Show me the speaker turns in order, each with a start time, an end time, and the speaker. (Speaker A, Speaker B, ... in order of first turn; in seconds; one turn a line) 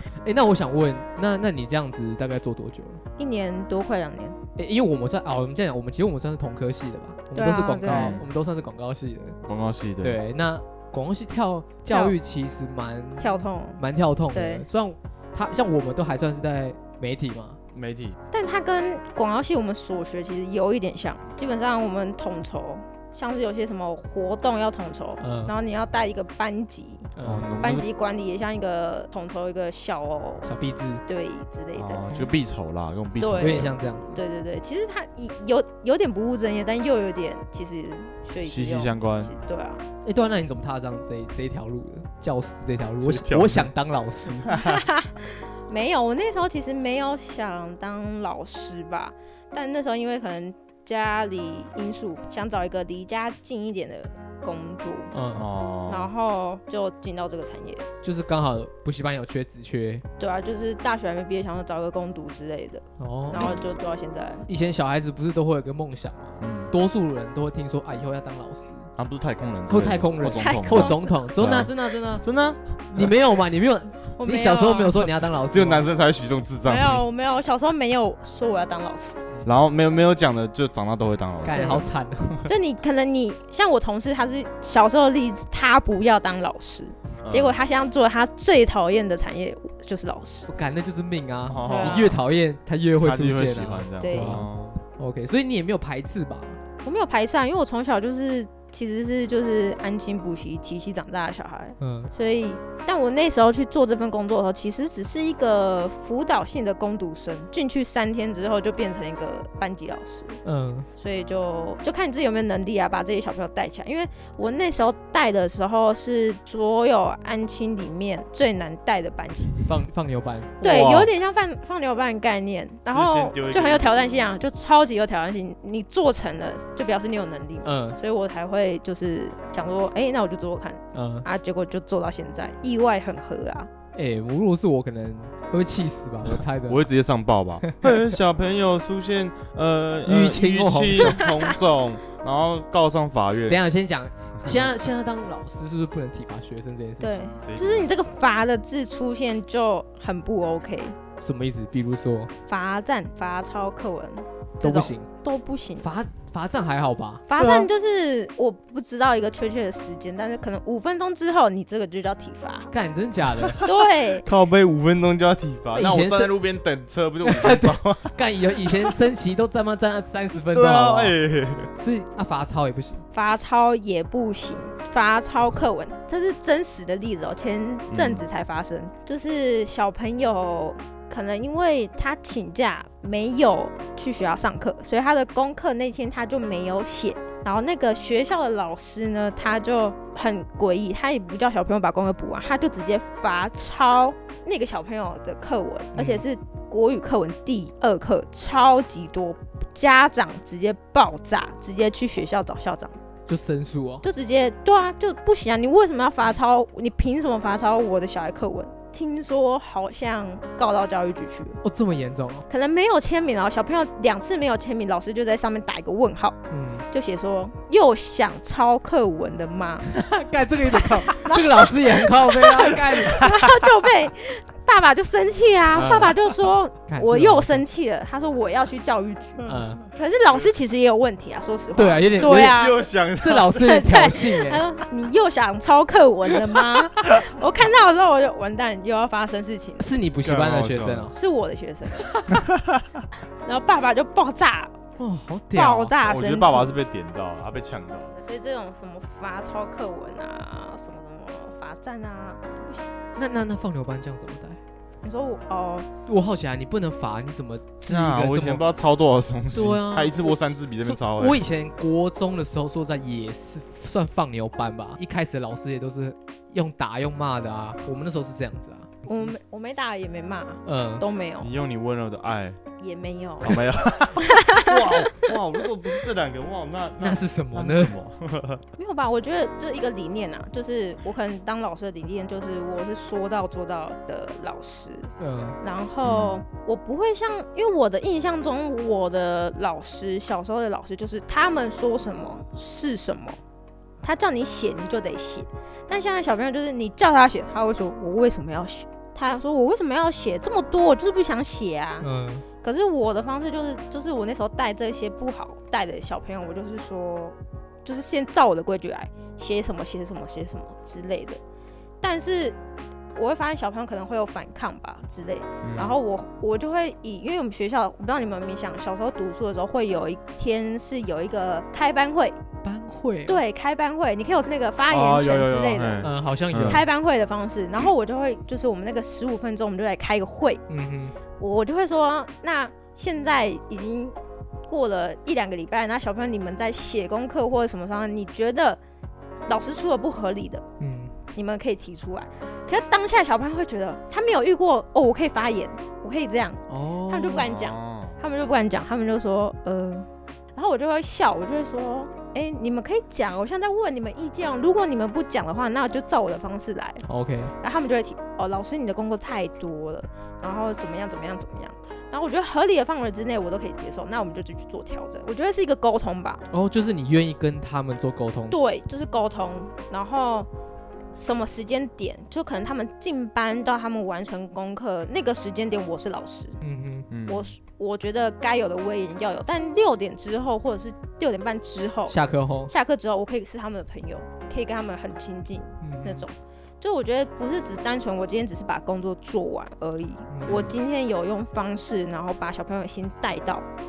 Speaker A: 0.2-3.0
Speaker B: 3.2-4.4
Speaker A: 4.6-9.4
Speaker B: 7.3-8.2
Speaker C: 7.9-8.3
Speaker C: 9.4-10.2
Speaker A: 10.0-17.6
Speaker B: 11.9-12.2
Speaker B: 13.2-14.7
Speaker C: 17.7-18.2
Speaker B: 18.3-30.5
Speaker A: 25.2-25.5
Speaker A: 27.2-27.7
Speaker C: 27.2-27.9
Speaker A: 30.4-31.0
Speaker B: 31.1-32.0
Speaker C: 31.8-33.7
Speaker B: 33.2-39.9
Speaker A: 33.4-34.2
Speaker C: 38.4-39.3
Speaker A: 40.0-44.5
Speaker C: 43.0-43.7
Speaker C: 44.4-44.8
Speaker B: 44.5-55.1
Speaker A: 55.1-55.5
Speaker C: 55.4-56.1
Speaker B: 55.9-57.9
Speaker A: 58.0-60.0
Speaker B: 60.2-64.5
Speaker A: 63.0-63.6
Speaker C: 63.3-63.6
Speaker A: 64.5-68.9
Speaker C: 66.4-66.7
Speaker C: 69.0-73.1
Speaker A: 69.7-72.3
Speaker B: 70.4-71.1
Speaker A: 72.9-75.9
Speaker B: 74.2-75.0
Speaker C: 75.2-77.1
Speaker B: 76.7-79.2
Speaker C: 79.4-81.9
Speaker A: 81.4-82.5
Speaker B: 81.5-81.8
Speaker B: 82.5-90.5
Speaker C: 87.2-87.6
Speaker A: 90.5-96.6
Speaker C: 91.5-92.2
Speaker B: 91.6-92.1
Speaker C: 93.0-94.8
Speaker B: 94.0-94.4
Speaker B: 96.8-110.4
Speaker A: 101.8-102.1
Speaker A: 110.5-110.9
Speaker B: 111.0-119.7
Speaker A: 119.7-120.6
Speaker B: 120.6-133.7
Speaker C: 120.6-121.1
Speaker C: 122.9-124.3
Speaker A: 127.7-128.0
Speaker A: 130.9-131.3
Speaker A: 133.9-136.8
Speaker C: 136.6-143.6
Speaker A: 137.6-138.2
Speaker A: 140.1-141.2
Speaker B: 141.2-141.5
Speaker A: 143.5-147.3
Speaker B: 147.0-151.0
Speaker C: 147.4-148.2
Speaker A: 151.2-152.3
Speaker B: 152.5-155.9
Speaker A: 154.6-155.1
Speaker A: 155.8-157.3
Speaker B: 157.3-162.7
Speaker C: 157.4-157.7
Speaker A: 162.7-163.6
Speaker C: 163.5-168.2
Speaker B: 163.6-164.3
Speaker A: 165.7-166.4
Speaker A: 167.2-171.2
Speaker C: 170.4-171.7
Speaker A: 171.8-173.0
Speaker B: 173.1-203.0
Speaker C: 177.9-178.2
Speaker A: 195.9-196.2
Speaker A: 203.3-204.0
Speaker B: 204.0-211.6
Speaker A: 211.6-212.5
Speaker B: 212.5-220.0
Speaker A: 216.5-216.9
Speaker A: 219.9-223.3
Speaker B: 221.0-232.8
Speaker A: 225.7-226.2
Speaker A: 226.9-227.6
Speaker C: 229.5-229.8
Speaker A: 229.5-229.8
Speaker A: 231.8-232.7
Speaker C: 232.2-233.8
Speaker A: 233.2-234.6
Speaker B: 233.6-239.9
Speaker A: 239.8-241.1
Speaker C: 240.2-241.1
Speaker B: 241.1-242.2
Speaker C: 242.3-242.8
Speaker B: 243.4-244.7
Speaker A: 245.0-245.9
Speaker B: 245.5-246.8
Speaker C: 246.0-248.2
Speaker B: 248.2-252.9
Speaker A: 253.2-254.6
Speaker B: 255.0-255.9
Speaker A: 256.1-258.7
Speaker C: 257.9-261.4
Speaker A: 259.5-269.3
Speaker B: 269.1-271.5
Speaker A: 270.7-271.0
Speaker C: 271.4-272.6
Speaker B: 272.8-275.3
Speaker C: 273.4-278.6
Speaker A: 277.0-277.9
Speaker B: 278.8-293.4
Speaker A: 285.2-285.6
Speaker C: 286.0-286.4
Speaker B: 294.0-302.1
Speaker A: 302.0-302.4
Speaker B: 302.6-311.4
Speaker B: 312.0-312.6
Speaker B: 313.1-322.4
Speaker C: 315.6-316.0
Speaker A: 322.6-323.4
Speaker B: 323.3-326.1
Speaker C: 324.9-326.9
Speaker A: 326.0-326.9
Speaker B: 326.6-330.6
Speaker A: 330.7-331.2
Speaker B: 331.4-334.2
Speaker B: 334.7-338.8
Speaker B: 339.5-340.6
Speaker A: 340.8-341.2
Speaker B: 341.4-357.1
Speaker A: 346.7-347.5
Speaker C: 347.4-348.2
Speaker A: 357.1-357.5
Speaker B: 357.6-366.4
Speaker A: 366.5-368.6
Speaker B: 368.5-370.5
Speaker B: 371.1-376.6
Speaker A: 376.6-377.1
Speaker C: 377.1-377.5
Speaker B: 377.3-393.7
Speaker A: 382.1-382.7
Speaker A: 385.8-386.3
Speaker A: 390.3-390.7
Speaker C: 390.5-390.8